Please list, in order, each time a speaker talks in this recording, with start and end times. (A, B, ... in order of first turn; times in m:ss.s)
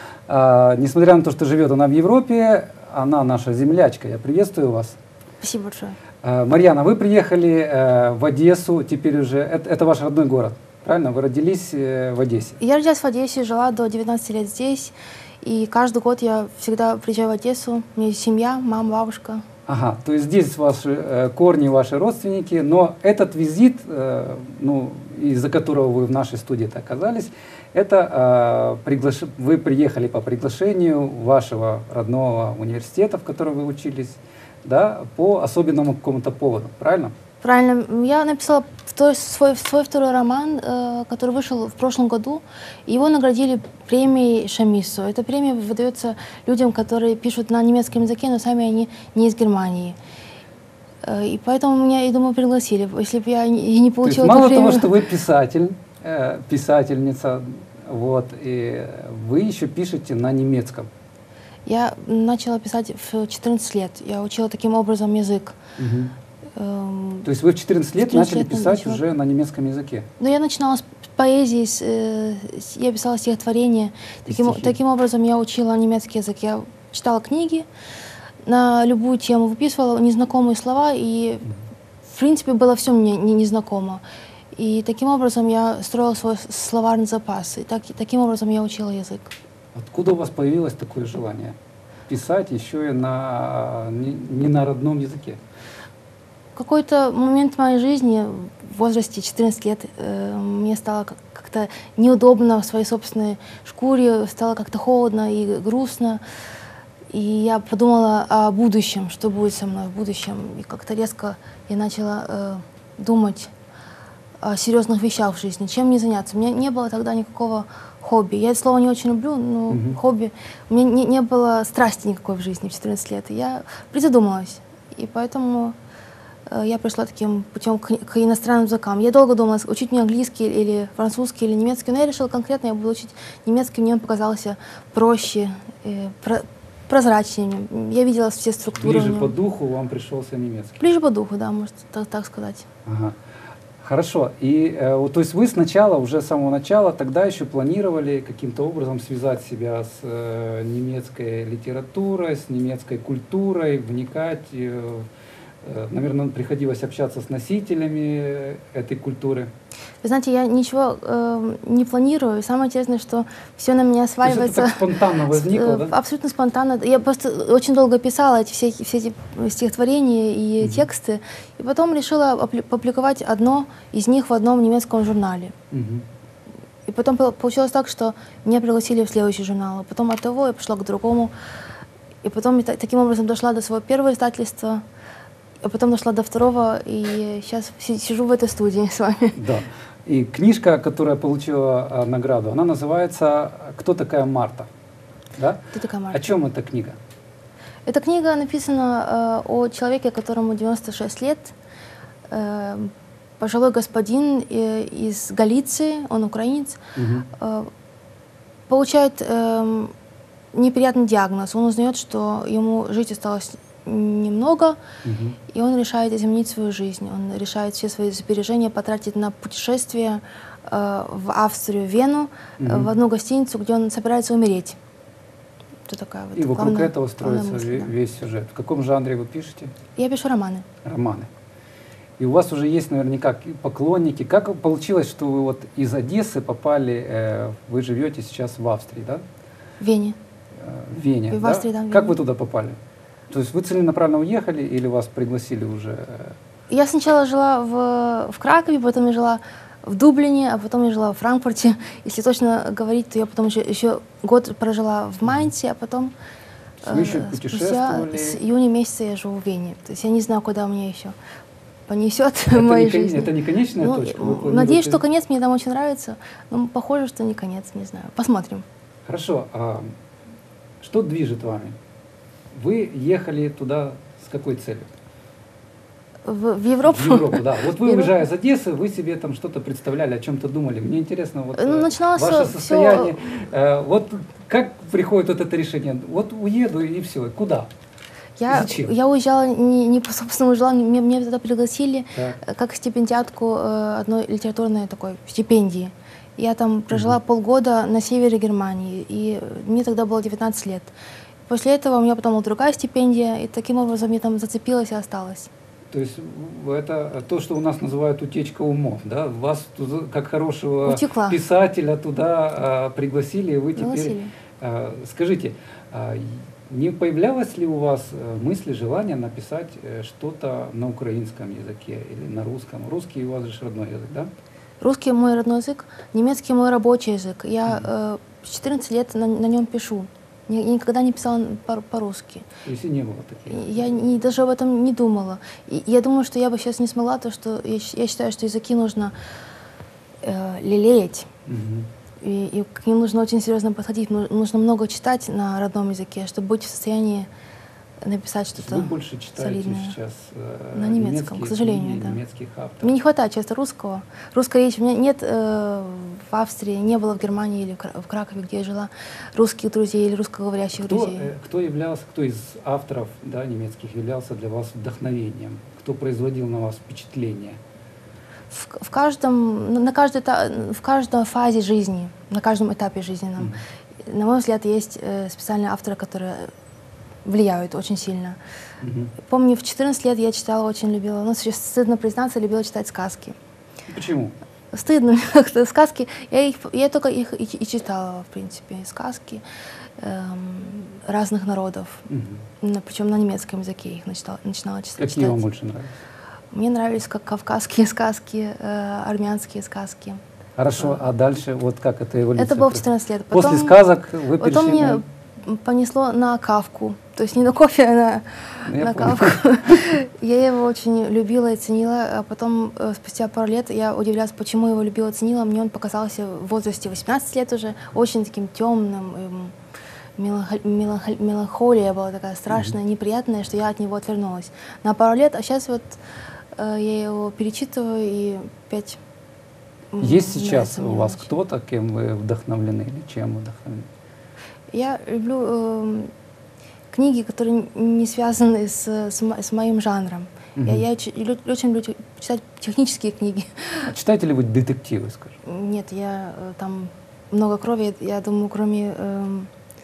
0:00.3-0:05.0 A
0:05.4-0:06.0 B
0:06.2-0:12.6 A
0:12.6-0:19.4 B
0:19.7-0:37.1 A
0:37.4-0:50.0 B
0:51.0-0:54.9 B
0:54.0-1:00.9 A
1:01.7-1:05.6 B
1:05.8-1:06.2 A
1:06.6-1:07.3 B
1:07.2-1:10.1 A
1:08.0-1:09.0 B
1:10.2-1:17.7 B
1:14.3-1:14.8 A
1:18.4-1:21.5 B
1:22.0-1:24.0 B
1:24.6-1:29.3 B
1:29.8-1:31.6 A
1:32.1-1:35.4 A
1:36.6-1:46.2 B
1:47.1-1:53.5 B
1:54.4-2:05.8 B
1:59.7-2:00.0 A
2:06.5-2:19.3 B
2:18.8-2:20.8 A
2:20.8-2:22.6 B
2:22.9-2:23.2 A
2:23.8-2:35.1 A
2:35.6-2:39.5 A
2:40.0-2:55.5 B
2:44.2-2:45.9 A
2:50.6-2:50.9 A
2:55.7-2:56.0 A
2:56.9-3:01.3 B
3:02.2-3:04.8 B
3:05.6-3:09.4 B
3:09.4-3:14.7 A
3:15.4-3:17.0 A
3:15.7-3:16.3 B
3:17.9-3:21.5 B
3:22.3-3:26.8 B
3:27.0-3:27.3 A
3:27.3-3:27.7 B
3:28.7-3:29.9 B
3:30.5-3:34.8 B
3:35.0-3:35.4 A
3:35.5-3:44.8 B
3:42.6-3:42.9 A
3:45.9-3:47.9 B
3:46.4-3:49.7 A
3:50.0-3:50.7 B
3:50.8-3:51.3 A
3:52.2-3:59.2 A
3:59.8-4:00.2 B
4:00.6-4:02.8 A
4:01.3-4:02.2 B
4:03.3-4:06.4 A
4:06.7-4:16.1 B
4:16.8-4:18.4 A
4:16.8-4:21.2 B
4:21.9-4:28.6 B
4:22.5-4:25.0 A
4:29.1-4:29.9 A
4:30.8-4:31.8 A
4:32.5-4:34.9 A
4:36.2-4:38.2 B
4:36.8-4:47.7 A
4:41.6-4:43.2 B
4:48.4-5:00.9 B
4:48.5-4:48.9 A
4:56.9-4:57.2 A
5:01.5-5:05.5 B
5:05.9-5:24.3 A
5:10.8-5:11.4 B
5:13.8-5:14.3 B
5:24.8-5:32.5 B
5:32.6-5:34.0 A
5:33.5-5:39.2 B
5:40.2-5:41.3 B
5:41.5-5:41.9 A
5:42.2-5:47.3 B
5:48.0-5:50.0 B
5:48.6-5:52.9 A
5:50.7-5:52.2 B
5:52.8-6:01.3 B
6:00.8-6:07.6 A
6:08.5-6:13.5 B
6:14.1-6:16.5 B
6:17.2-6:18.4 B
6:18.8-6:19.1 A
6:19.2-6:23.4 B
6:23.9-6:24.4 A
6:24.7-6:29.4 B
6:30.0-6:32.1 B
6:32.1-6:32.4 A
6:32.6-6:35.4 B
6:35.0-6:35.9 A
6:36.5-6:40.2 B
6:40.6-6:45.0 A
6:42.4-6:43.8 B
6:44.4-6:59.5 B
6:48.7-6:49.8 A
7:00.2-7:06.0 B
7:02.5-7:02.8 A
7:06.6-7:09.0 B
7:09.9-7:11.3 B
7:10.0-7:13.9 A
7:14.7-7:16.1 B
7:16.9-7:23.9 B
7:20.6-7:20.8 A
7:23.9-7:25.4 A
7:25.4-7:29.5 B